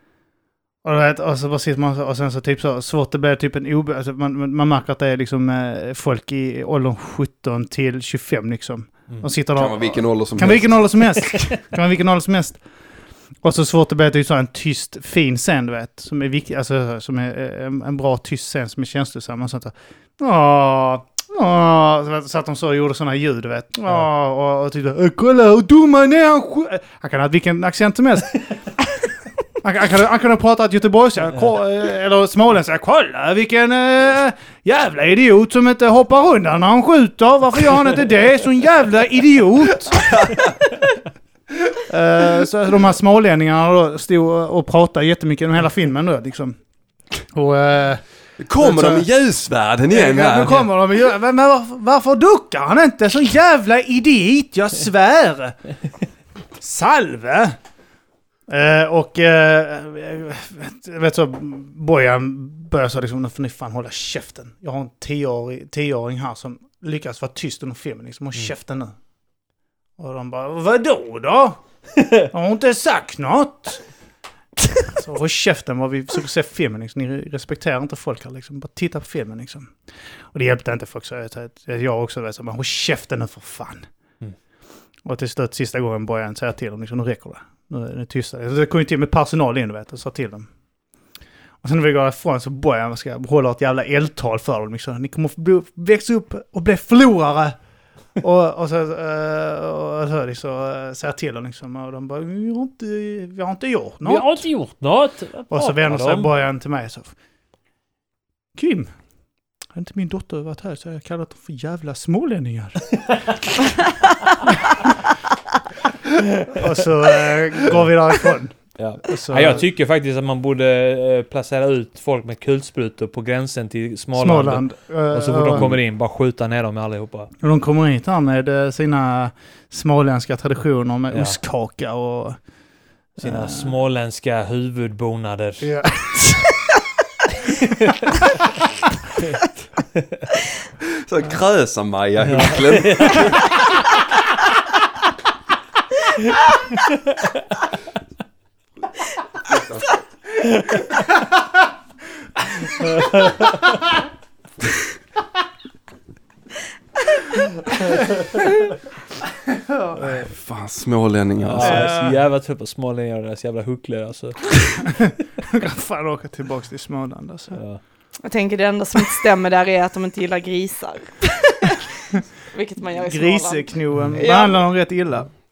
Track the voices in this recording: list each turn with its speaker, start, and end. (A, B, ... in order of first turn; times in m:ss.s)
0:00.8-0:12.6 A
0:09.6-0:10.9 B
0:13.4-0:28.5 A
0:29.6-0:40.1 A
0:39.9-0:40.5 B
0:41.9-0:46.6 A
0:47.3-0:48.0 A
0:48.4-0:50.7 B
0:48.6-0:49.1 A
0:49.9-0:55.6 A
0:56.6-0:57.6 A
0:58.5-1:08.9 A
1:10.0-1:11.6 A
1:12.3-1:13.8 A
1:15.0-1:19.8 A
1:20.3-1:23.9 A
1:25.0-1:30.5 A
1:31.6-1:37.6 A
1:38.2-1:44.4 A
1:44.0-1:46.3 C
1:45.5-1:47.1 A
1:48.6-1:48.9 A
1:49.8-1:53.4 A
1:56.5-1:59.7 A
1:58.8-2:07.3 C
2:04.2-2:05.7 A
2:07.4-2:12.4 A
2:11.1-2:11.4 C
2:13.2-2:13.7 A
2:13.2-2:15.7 C
2:15.6-2:16.6 A
2:20.8-2:23.5 B
2:22.3-2:23.4 C
2:26.9-2:27.4 C
2:29.4-2:30.0 B
2:32.8-2:33.4 C
2:39.7-2:40.3 A
2:40.0-2:41.9 B
2:41.5-2:44.8 C
2:41.6-2:42.2 A
2:45.5-2:47.6 A
2:47.5-2:47.8 C
2:48.2-2:51.9 D
2:52.5-2:54.7 D
2:53.0-2:55.3 A
2:54.0-2:54.2 C